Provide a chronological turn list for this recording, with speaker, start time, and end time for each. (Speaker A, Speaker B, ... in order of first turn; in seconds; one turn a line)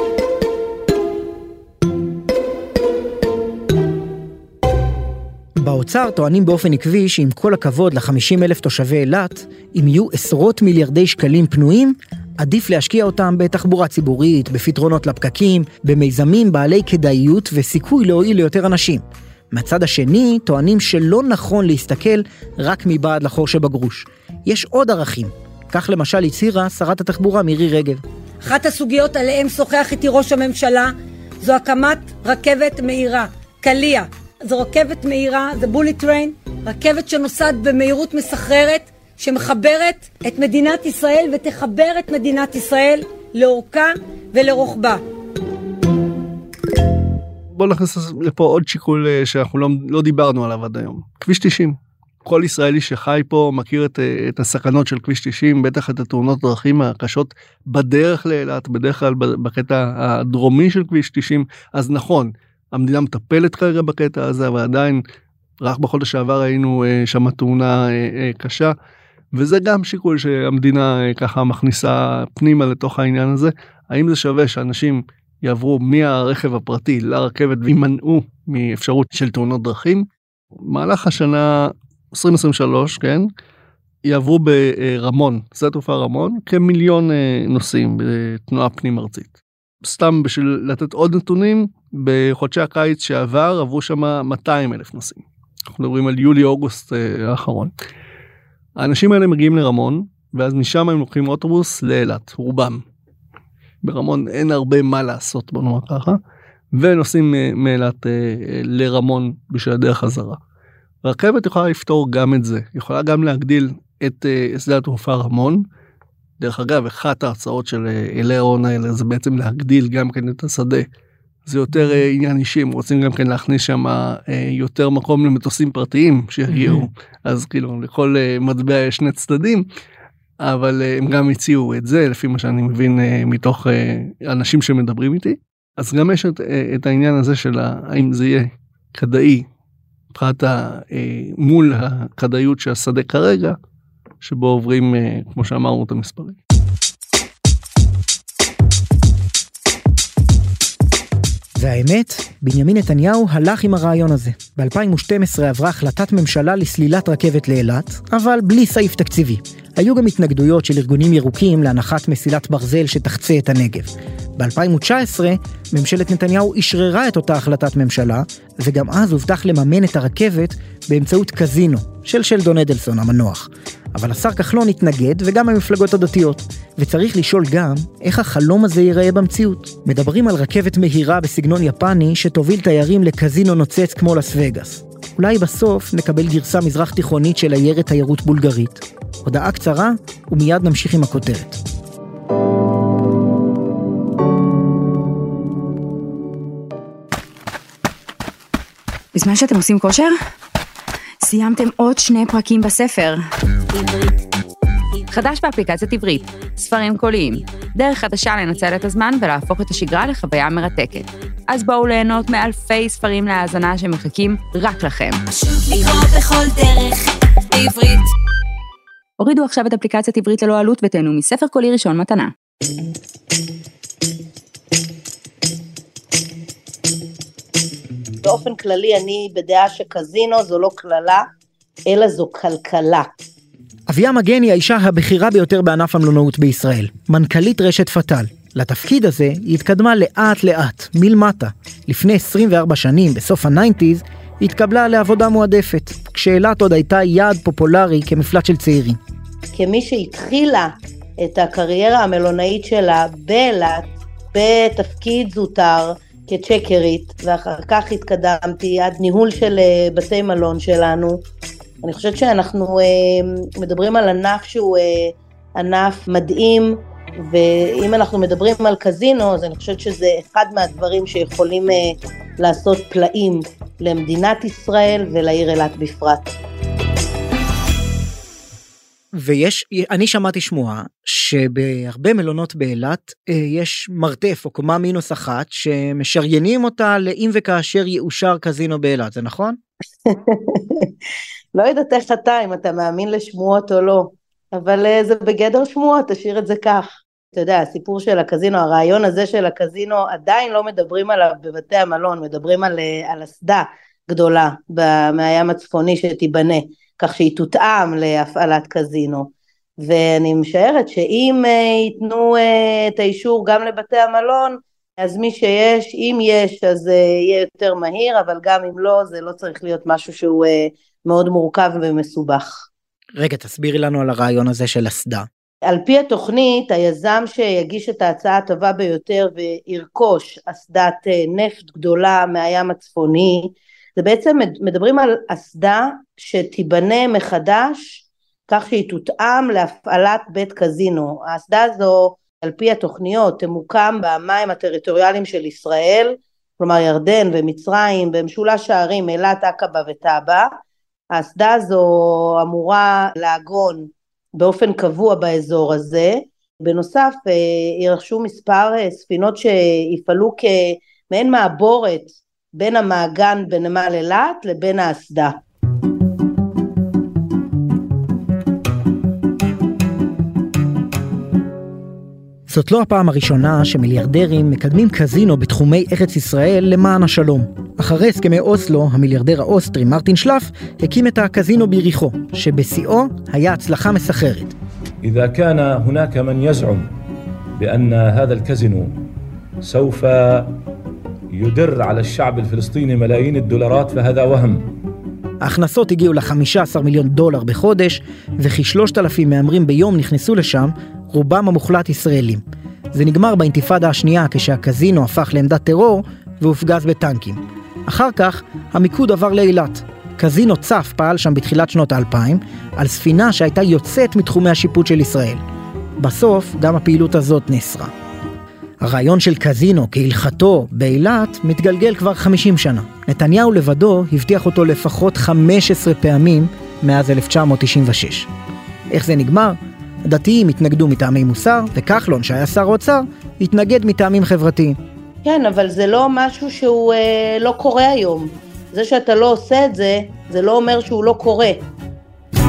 Speaker A: 5.6-28.0
Speaker B: 28.4-45.0
Speaker C: 47.5-65.0
Speaker C: 65.6-68.7
Speaker C: 69.3-80.1
Speaker C: 80.6-83.3
Speaker C: 84.0-97.7
Speaker C: 98.8-102.8
Speaker C: 103.8-106.2
Speaker C: 106.7-110.4
Speaker C: 111.0-115.6
Speaker C: 116.4-120.8
Speaker C: 121.5-129.7
Speaker C: 130.4-139.4
Speaker C: 140.1-143.6
Speaker C: 144.2-146.4
Speaker A: 151.6-191.6
Speaker D: 199.1-200.1
Speaker D: 201.2-203.2
Speaker D: 205.1-218.1
Speaker D: 219.2-222.3
Speaker E: 228.2-231.2
Speaker E: 231.9-233.2
Speaker A: 233.9-249.0
Speaker E: 249.5-261.2
Speaker E: 261.8-276.4
Speaker A: 279.1-289.6
Speaker E: 290.1-290.9
Speaker E: 291.5-322.7
Speaker A: 323.2-325.3
Speaker E: 325.6-350.5
Speaker E: 351.1-365.4
Speaker A: 372.5-384.5
Speaker F: 385.0-386.9
Speaker F: 387.6-389.0
Speaker F: 389.6-390.6
Speaker F: 391.3-394.7
Speaker A: 395.4-402.4
Speaker A: 402.9-415.4
Speaker A: 416.0-417.9
Speaker A: 418.8-428.3
Speaker A: 428.9-434.8
Speaker E: 435.2-441.7